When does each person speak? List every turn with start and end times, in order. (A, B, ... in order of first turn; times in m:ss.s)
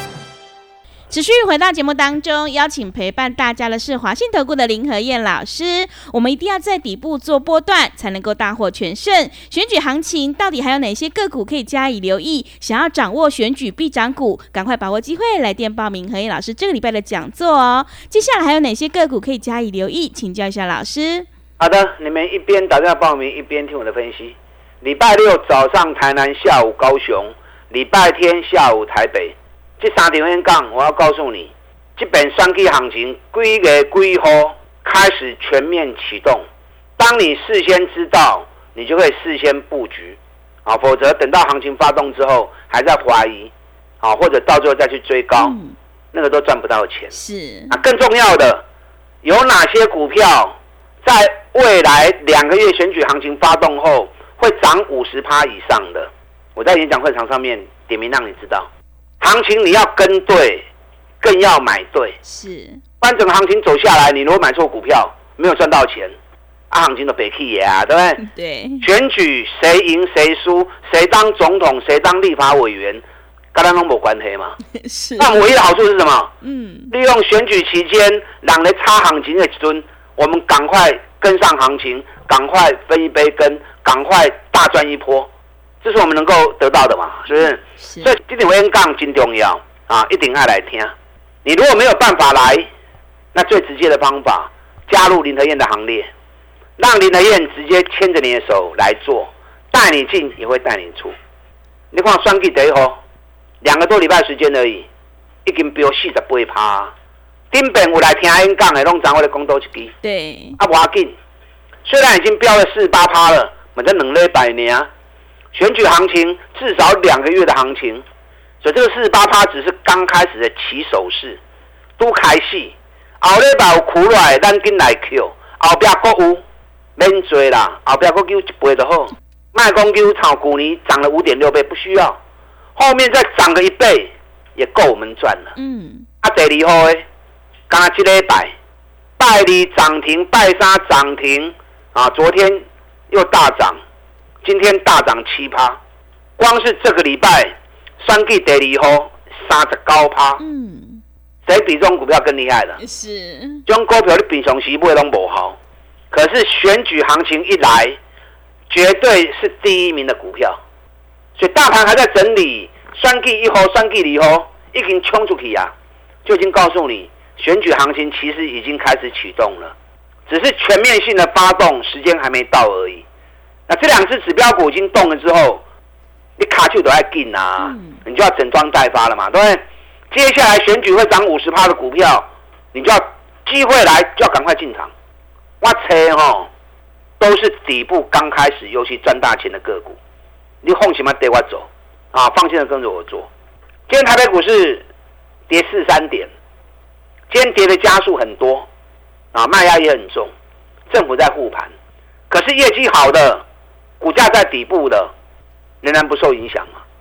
0:01.1-0:21.3 A
0:21.6-0:36.4 B
0:37.0-0:45.6 B
0:45.4-0:45.7 A
0:46.1-0:47.1 B
0:47.1-0:47.8 A
0:47.7-0:48.6 B
0:49.2-0:58.7 B
0:59.2-1:00.7 B
1:01.2-1:02.2 B
1:02.2-1:02.8 A
1:03.0-1:06.1 B
1:06.7-1:08.2 B
1:08.2-1:08.8 A
1:08.8-1:14.6 B
1:14.7-1:15.4 A
1:15.2-1:16.3 B
1:16.4-1:16.9 A
1:16.9-1:25.3 B
1:25.8-1:32.7 B
1:27.4-1:28.1 A
1:33.3-1:36.1 B
1:36.8-1:41.1 B
1:41.9-1:43.0 B
1:43.6-1:44.9 B
1:45.4-1:46.9 B
1:47.5-1:49.9 B
1:50.0-1:50.6 A
1:50.6-1:51.1 B
1:51.8-1:54.9 B
1:55.5-1:58.0 B
1:58.6-2:01.4 B
2:02.0-2:06.4 B
2:07.0-2:12.2 B
2:12.8-2:15.5 B
2:15.6-2:16.0 A
2:16.2-2:17.0 B
2:17.7-2:18.5 B
2:19.2-2:23.8 B
2:24.4-2:25.8 B
2:26.4-2:30.4 B
2:30.4-2:31.0 A
2:31.4-2:32.8 B
2:32.8-2:33.6 A
2:33.7-2:35.6 B
2:36.1-2:38.0 B
2:38.7-2:40.6 B
2:41.4-2:45.7 B
2:46.2-2:49.7 B
2:50.3-2:53.0 B
2:53.7-2:55.6 B
2:56.4-3:04.9 B
2:57.6-2:58.0 A
3:05.6-3:06.5 B
3:07.2-3:10.0 B
3:10.6-3:13.3 B
3:13.9-3:14.8 B
3:15.5-3:16.3 B
3:17.3-3:18.7 B
3:19.3-3:20.3 B
3:20.9-3:21.7 B
3:22.3-3:23.4 B
3:24.0-3:25.1 B
3:25.8-3:26.8 B